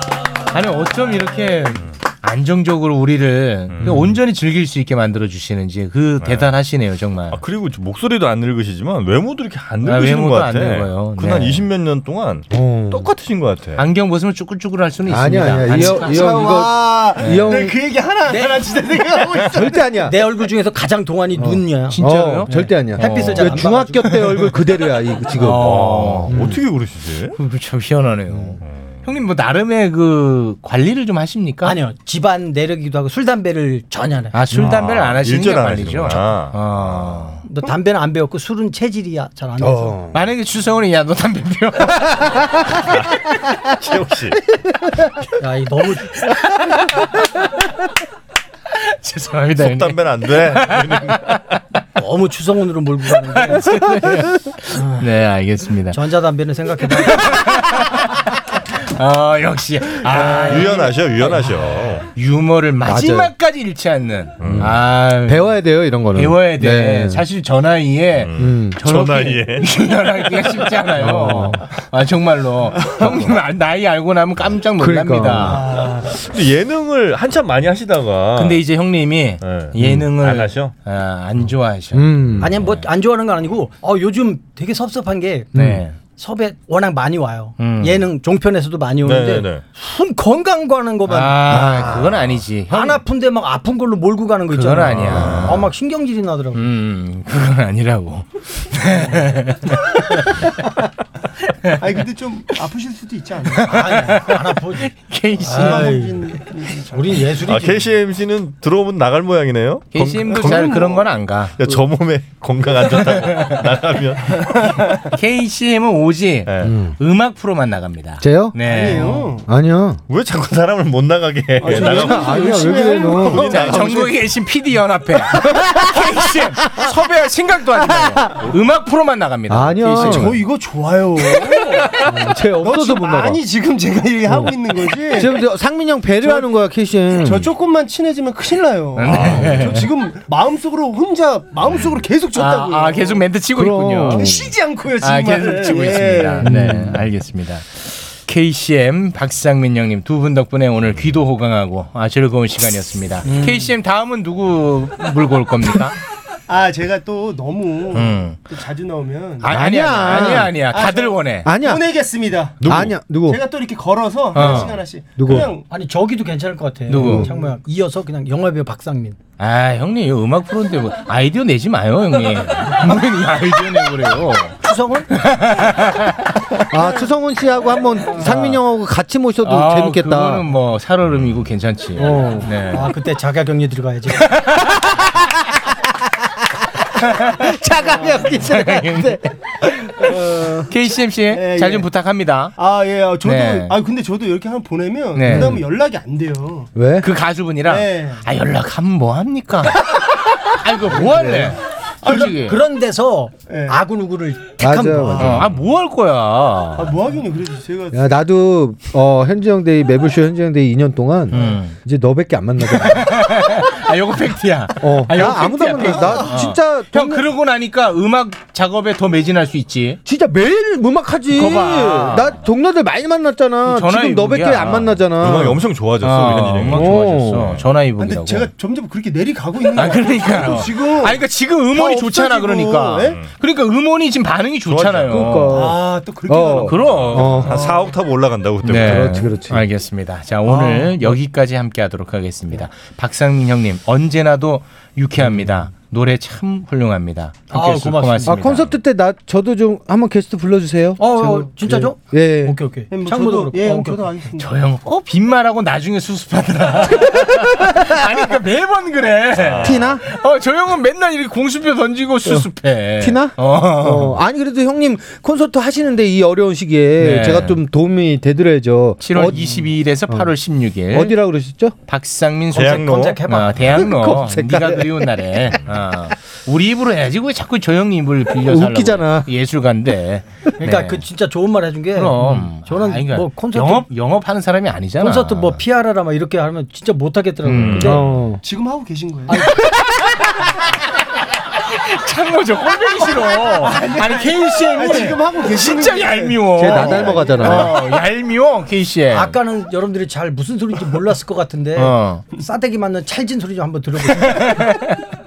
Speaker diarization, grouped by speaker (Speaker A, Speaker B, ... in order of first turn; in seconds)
Speaker A: 0.5-7.4, 9.8-11.6, 13.8-16.6, 17.2-17.6, 21.9-24.5, 25.3-26.4, 27.4-31.8, 34.3-37.4, 40.1-42.4, 46.3-47.0, 48.7-51.4, 53.3-56.0, 57.0-58.2, 58.8-60.9, 62.0-65.5, 66.1-75.6, 78.3-82.8, 85.5-85.9, 87.6-88.0, 91.1-93.0, 94.5-95.7, 96.5-100.5, 103.6-106.0, 109.9-111.6, 113.0-113.6, 115.0-119.2, 123.3-130.3, 138.9-139.9, 142.3-156.0, 157.9-158.4, 159.4-161.5, 164.3-164.8, 166.9-167.3, 169.4-174.6, 175.1-176.3, 179.4-182.9, 184.2-185.0, 187.0-187.4, 188.3-189.3, 190.7-192.5, 193.2-193.8, 195.1-195.6, 197.0-199.9, 200.4-202.6, 205.2-206.9, 211.3-211.8, 212.6-220.0, 221.3-222.4, 223.6-225.0, 226.0-228.5, 229.7-235.5, 236.6-237.5, 238.6-248.7, 254.4-264.2, 267.0-267.6, 269.0-271.2, 271.9-281.0, 281.9-285.6, 287.4-287.9, 289.3-290.6, 291.6-299.3, 301.8-302.2, 304.1-305.0
Speaker B: 3.7-4.2, 6.2-6.5, 7.3-13.8, 25.4-27.4, 28.6-29.0, 34.5-37.2, 42.8-44.5, 49.6-51.6, 60.0-62.0, 64.4-64.8, 68.2-69.8, 73.0-73.2, 75.9-78.6, 79.4-80.7, 82.3-82.6, 89.0-89.6, 95.0-95.7, 107.4-111.1, 111.6-115.0, 116.5-116.8, 120.1-124.2, 139.1-139.7, 141.7-141.9, 162.6-162.9, 225.2-227.6, 234.7-235.5, 236.8-239.3, 259.4-260.0, 272.5-273.2, 287.5-288.0
Speaker C: 3.8-4.2, 12.5-13.1, 15.1-17.7, 19.5-20.2, 21.3-26.6, 34.5-34.8, 39.6-40.2, 62.9-63.3, 64.4-67.2, 68.4-68.8, 71.0-71.7, 74.8-75.8, 79.8-80.0, 81.9-82.5, 85.5-85.8, 116.6-116.9, 118.2-118.5, 119.4-120.0, 121.7-123.6, 127.8-128.4, 129.5-130.4, 132.0-133.4, 134.3-134.5, 135.1-137.5, 143.5-144.4, 146.4-147.0, 159.4-160.7, 161.4-161.8, 162.6-163.4, 164.4-164.6, 165.2-165.5, 167.0-167.2, 176.7-180.4, 181.9-182.5, 187.3-190.7, 195.3-195.6, 196.7-197.1, 204.6-205.5, 207.9-213.1, 214.8-217.2, 220.0-225.7, 226.7-227.5, 235.1-237.7, 238.7-239.6, 248.2-252.6, 259.6-260.0, 262.2-270.3, 270.9-271.7, 273.7-275.2, 278.4-279.3, 287.8-288.4, 296.6-297.8
Speaker D: 15.7-19.9, 75.4-76.1, 101.8-104.2, 105.4-107.3, 110.3-111.0, 118.7-119.4, 121.6-123.5, 129.9-132.0, 132.6-135.4, 136.2-136.5, 137.1-143.2, 144.1-146.5, 156.5-165.7, 167.0-167.5, 191.3-191.9, 192.6-196.7, 197.6-198.2, 202.0-202.3, 203.5-203.8, 206.7-208.1, 215.8-216.4, 228.0-233.2, 235.5-238.0, 252.9-254.5, 288.4-289.4, 293.4-297.7
Speaker E: 18.2-18.7, 19.9-24.2, 31.6-34.4, 37.4-40.0, 45.4-46.1, 52.0-53.8, 54.7-55.0, 55.9-57.5, 82.4-92.1, 92.7-96.7, 103.7-107.9, 153.2-153.7, 165.7-169.2, 174.6-175.1, 182.7-184.3, 202.0-205.3, 240.7-240.9, 247.5-248.4, 251.0-254.0, 272.6-273.7, 280.6-283.9, 285.0-288.1, 289.3-289.7, 299.1-304.7